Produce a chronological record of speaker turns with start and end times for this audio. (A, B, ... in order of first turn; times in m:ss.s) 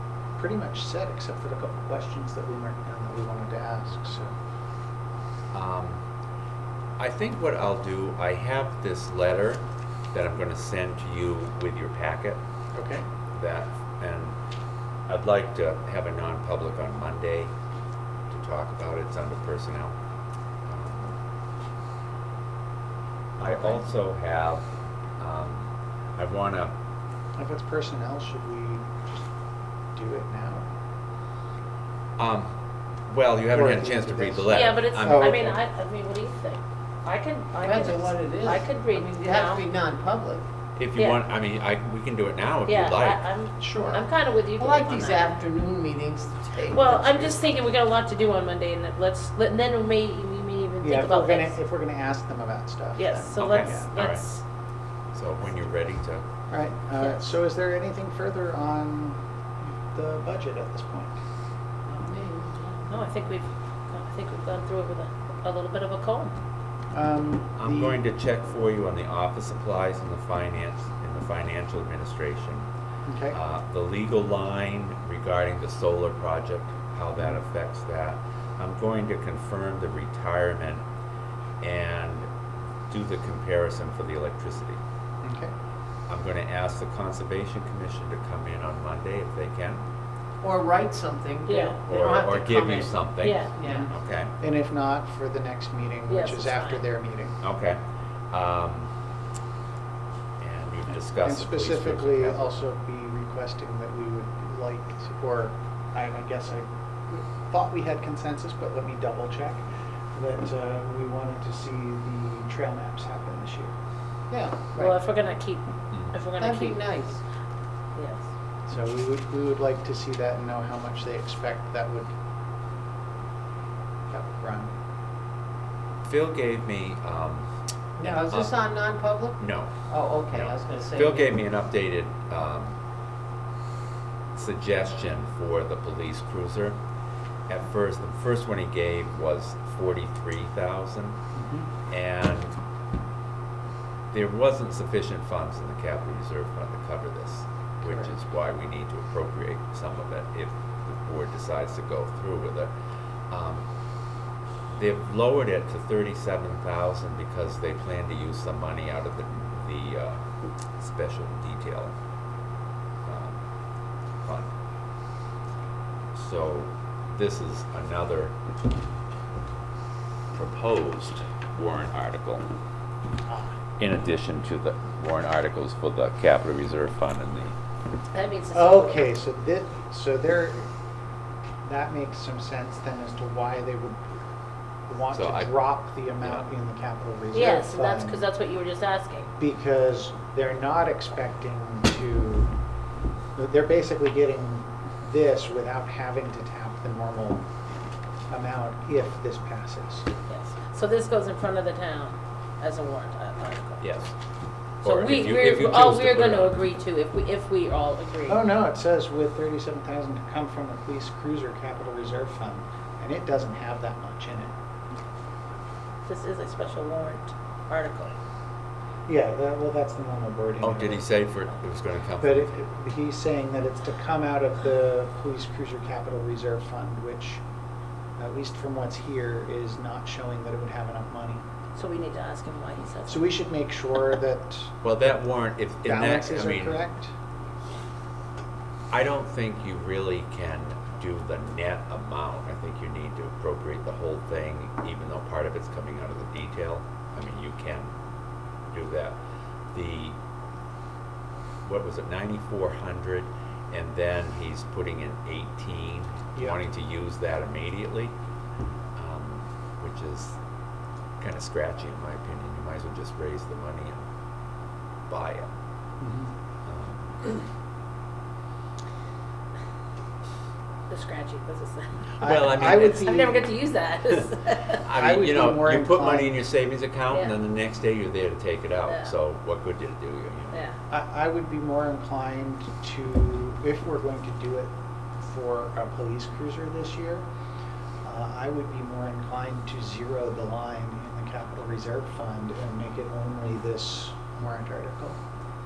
0:00.4-0:04.3 A
0:05.5-0:06.0 B
0:07.0-0:12.4 B
0:12.7-0:13.0 A
0:13.3-0:14.4 B
0:15.1-0:17.5 B
0:18.3-0:20.0 B
0:20.7-0:21.2 B
0:23.4-0:24.7 B
0:23.4-0:23.8 A
0:25.2-0:26.7 B
0:27.4-0:28.9 A
0:30.0-0:30.7 A
0:32.2-0:32.5 B
0:33.1-0:35.5 B
0:33.5-0:35.6 A
0:34.5-0:39.6 C
0:37.6-0:40.4 D
0:40.8-0:43.2 B
0:42.6-0:45.3 C
0:43.6-0:44.0 A
0:43.6-0:44.0 D
0:44.6-0:47.4 D
0:46.7-0:51.6 C
0:50.8-0:53.9 A
0:53.0-0:54.4 C
0:53.4-0:54.2 B
0:55.1-0:56.2 B
0:56.5-1:01.2 A
1:01.9-1:02.9 D
1:02.9-1:06.4 C
1:06.9-1:08.0 A
1:07.6-1:12.7 B
1:13.0-1:13.4 A
1:13.3-1:20.8 B
1:17.2-1:17.4 A
1:21.6-1:22.3 B
1:22.9-1:24.8 B
1:25.2-1:25.5 A
1:26.1-1:29.8 B
1:30.4-1:33.9 D
1:31.4-1:31.8 C
1:31.8-1:34.3 B
1:33.2-1:33.6 C
1:33.6-1:37.4 A
1:36.1-1:36.8 C
1:37.4-1:37.8 B
1:38.3-1:38.9 B
1:40.4-1:42.5 B
1:41.2-1:53.7 A
1:54.3-1:54.9 A
1:54.8-1:56.8 C
1:56.4-1:57.2 D
1:57.9-1:58.2 C
1:58.7-2:02.1 A
2:04.1-2:04.7 A
2:06.0-2:07.5 B
2:08.0-2:11.4 D
2:08.0-2:08.5 B
2:09.4-2:09.7 B
2:10.3-2:12.8 B
2:14.3-2:16.8 B
2:17.5-2:21.2 B
2:21.3-2:21.7 A
2:21.9-2:22.6 B
2:24.1-2:32.7 B
2:27.8-2:28.1 A
2:33.3-2:33.7 B
2:34.7-2:40.2 B
2:40.8-2:41.9 B
2:43.0-2:43.4 B
2:44.2-2:44.5 B
2:46.1-2:48.4 B
2:50.3-2:52.4 B
2:53.2-2:53.6 A
2:53.8-2:57.6 B
2:58.1-2:59.1 C
2:58.5-3:00.7 A
3:01.6-3:04.1 A
3:04.9-3:08.2 A
3:05.1-3:05.6 B
3:07.3-3:09.3 C
3:09.4-3:12.5 A
3:13.4-3:17.4 A
3:18.3-3:20.1 A
3:20.2-3:24.0 C
3:23.8-3:24.1 B
3:24.8-3:28.5 C
3:24.8-3:26.6 B
3:28.2-3:34.5 A
3:36.1-3:38.2 C
3:39.1-3:41.1 A
3:40.6-3:42.6 B
3:42.2-3:47.4 A
3:48.2-3:51.4 A
3:51.8-3:53.3 C
3:53.1-3:54.8 A
3:54.8-3:56.8 B
3:55.8-3:57.1 A
3:58.9-4:07.9 B
4:08.7-4:09.2 B
4:09.7-4:10.2 B
4:11.6-4:18.1 B
4:16.3-4:16.6 A
4:19.0-4:20.4 B
4:21.2-4:24.0 B
4:25.1-4:25.5 B
4:26.0-4:26.3 A
4:26.6-4:27.1 B
4:30.9-4:31.9 C
4:32.2-4:33.4 A
4:32.2-4:33.3 B
4:32.6-4:34.8 C
4:34.8-4:40.6 B
4:34.9-4:36.3 A
4:37.1-4:37.4 C
4:38.9-4:39.1 C
4:40.5-4:40.8 C
4:40.9-4:47.2 A
4:48.0-4:55.2 A